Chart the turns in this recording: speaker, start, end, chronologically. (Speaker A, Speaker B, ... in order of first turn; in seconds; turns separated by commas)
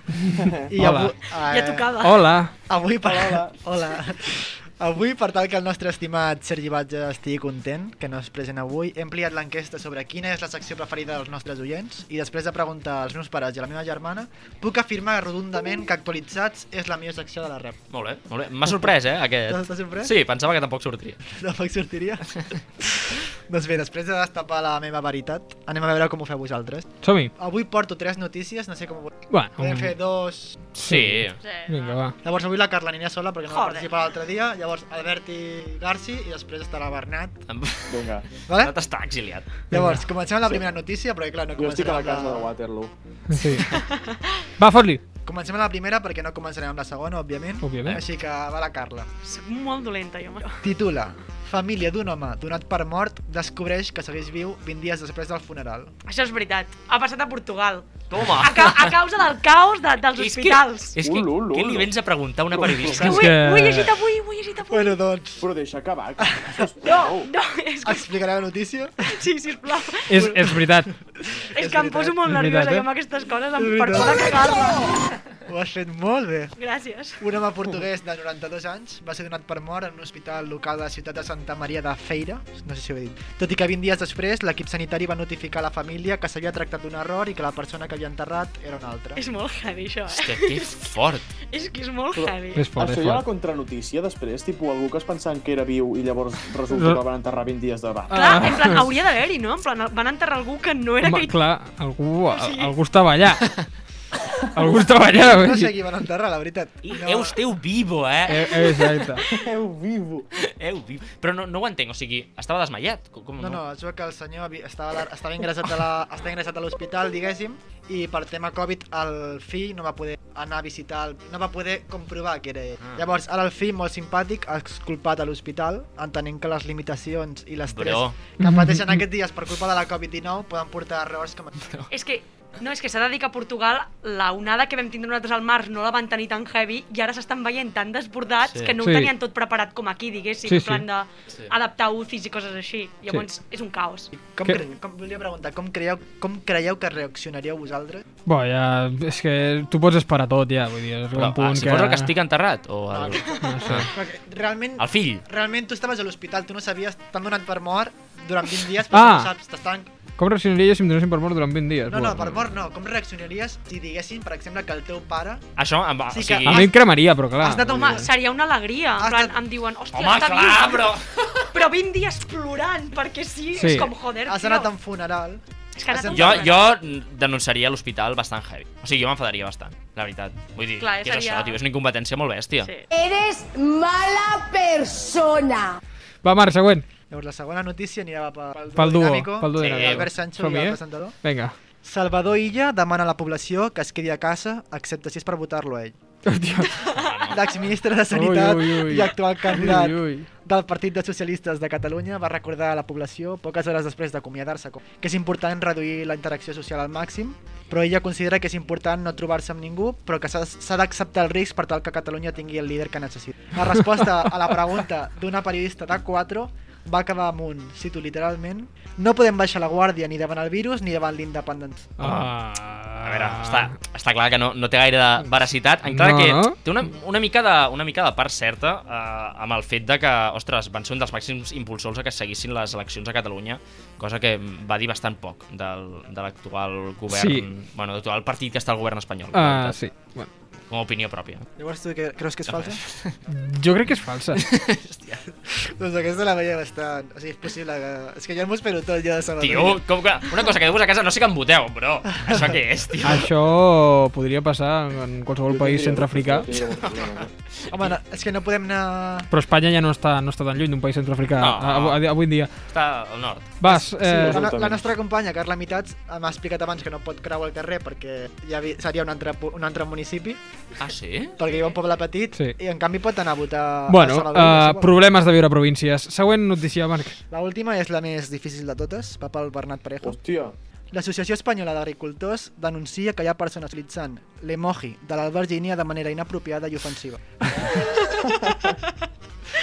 Speaker A: 0.1-1.1, Speaker B: 0.7-1.9, Speaker C: 1.5-2.3, Speaker A: 2.0-2.5, Speaker B: 2.6-17.8, Speaker D: 3.0-3.6, Speaker E: 17.9-21.2, Speaker B: 19.5-20.1, Speaker B: 21.3-30.6, Speaker A: 27.0-27.3, Speaker A: 29.3-29.9, Speaker E: 30.8-31.4, Speaker A: 30.8-32.1, Speaker C: 31.4-32.0, Speaker B: 32.2-37.4, Speaker C: 33.5-33.9, Speaker E: 37.5-39.6, Speaker D: 37.9-38.2, Speaker B: 38.5-38.7, Speaker B: 39.7-42.5, Speaker A: 39.7-40.0, Speaker D: 41.5-42.9, Speaker A: 43.3-43.8, Speaker B: 43.5-43.8, Speaker C: 43.8-44.2, Speaker A: 44.6-45.0, Speaker B: 45.2-49.1, Speaker A: 47.6-48.0, Speaker C: 49.2-50.6, Speaker B: 50.6-55.9, Speaker C: 56.0-60.9, Speaker E: 58.1-59.0, Speaker E: 60.1-63.2, Speaker D: 61.0-61.9, Speaker D: 62.5-63.0, Speaker C: 62.9-65.0, Speaker A: 63.0-63.9, Speaker B: 64.7-65.5, Speaker D: 65.4-67.3, Speaker B: 66.2-66.7, Speaker C: 66.8-68.1, Speaker B: 67.8-69.2, Speaker C: 69.1-70.2, Speaker A: 70.1-70.9, Speaker B: 70.2-72.2, Speaker C: 71.5-74.8, Speaker A: 72.2-72.8, Speaker B: 73.5-74.7, Speaker B: 75.4-76.5, Speaker C: 76.6-77.2, Speaker B: 77.2-89.2, Speaker C: 89.2-90.7, Speaker E: 90.1-91.3, Speaker C: 91.5-92.7, Speaker D: 92.1-98.4, Speaker A: 92.5-93.2, Speaker A: 96.7-97.0, Speaker C: 98.1-101.4, Speaker A: 98.1-98.8, Speaker A: 101.0-103.5, Speaker C: 102.3-102.7, Speaker A: 104.5-105.7, Speaker B: 105.0-107.4, Speaker E: 106.8-108.7, Speaker A: 108.3-109.2, Speaker D: 109.2-110.3, Speaker E: 110.4-113.6, Speaker B: 113.4-131.5, Speaker E: 127.7-128.2, Speaker A: 128.4-129.0, Speaker C: 131.9-144.1, Speaker E: 138.4-138.7, Speaker A: 138.8-139.1, Speaker A: 140.4-140.8, Speaker B: 144.1-148.0, Speaker A: 148.2-152.1, Speaker E: 151.1-153.9, Speaker B: 152.9-153.4, Speaker A: 153.4-153.9, Speaker B: 153.9-159.9, Speaker E: 154.8-155.2, Speaker A: 158.9-159.3, Speaker A: 160.2-162.2, Speaker B: 161.9-165.4, Speaker E: 162.2-162.4, Speaker E: 165.6-166.7, Speaker B: 166.1-166.7, Speaker A: 166.4-167.8, Speaker B: 167.4-168.2, Speaker C: 167.7-170.9, Speaker B: 169.0-169.4, Speaker E: 169.9-171.5, Speaker C: 171.5-174.7, Speaker A: 173.5-173.9, Speaker B: 174.2-176.5, Speaker C: 175.8-176.6, Speaker E: 176.1-182.7, Speaker C: 180.8-181.6, Speaker C: 182.6-182.8, Speaker F: 182.9-185.8, Speaker A: 186.2-186.9, Speaker B: 187.1-191.2, Speaker A: 188.8-191.5, Speaker E: 189.6-190.1, Speaker B: 191.8-196.0, Speaker A: 196.2-196.7, Speaker C: 196.8-197.1, Speaker E: 196.9-197.7, Speaker B: 197.3-221.9, Speaker A: 198.1-200.3, Speaker A: 222.0-223.7, Speaker E: 222.0-222.3, Speaker E: 223.0-239.8, Speaker A: 225.9-226.6, Speaker A: 237.1-237.4, Speaker A: 239.3-240.3, Speaker E: 240.7-241.5, Speaker B: 241.6-242.8, Speaker E: 242.5-242.9, Speaker A: 243.3-244.4, Speaker E: 244.4-245.2, Speaker B: 245.5-249.8, Speaker E: 249.4-253.3, Speaker B: 252.1-252.6, Speaker A: 253.0-256.5, Speaker D: 255.5-257.3, Speaker E: 256.7-258.0, Speaker B: 257.7-259.3, Speaker A: 259.3-262.5, Speaker E: 261.4-262.0, Speaker E: 262.7-263.6, Speaker A: 263.6-264.4, Speaker B: 263.6-270.4, Speaker D: 264.0-264.9, Speaker E: 270.8-271.3, Speaker B: 271.4-274.9, Speaker A: 273.9-277.1, Speaker B: 277.3-280.2, Speaker D: 280.0-280.6, Speaker B: 280.9-288.3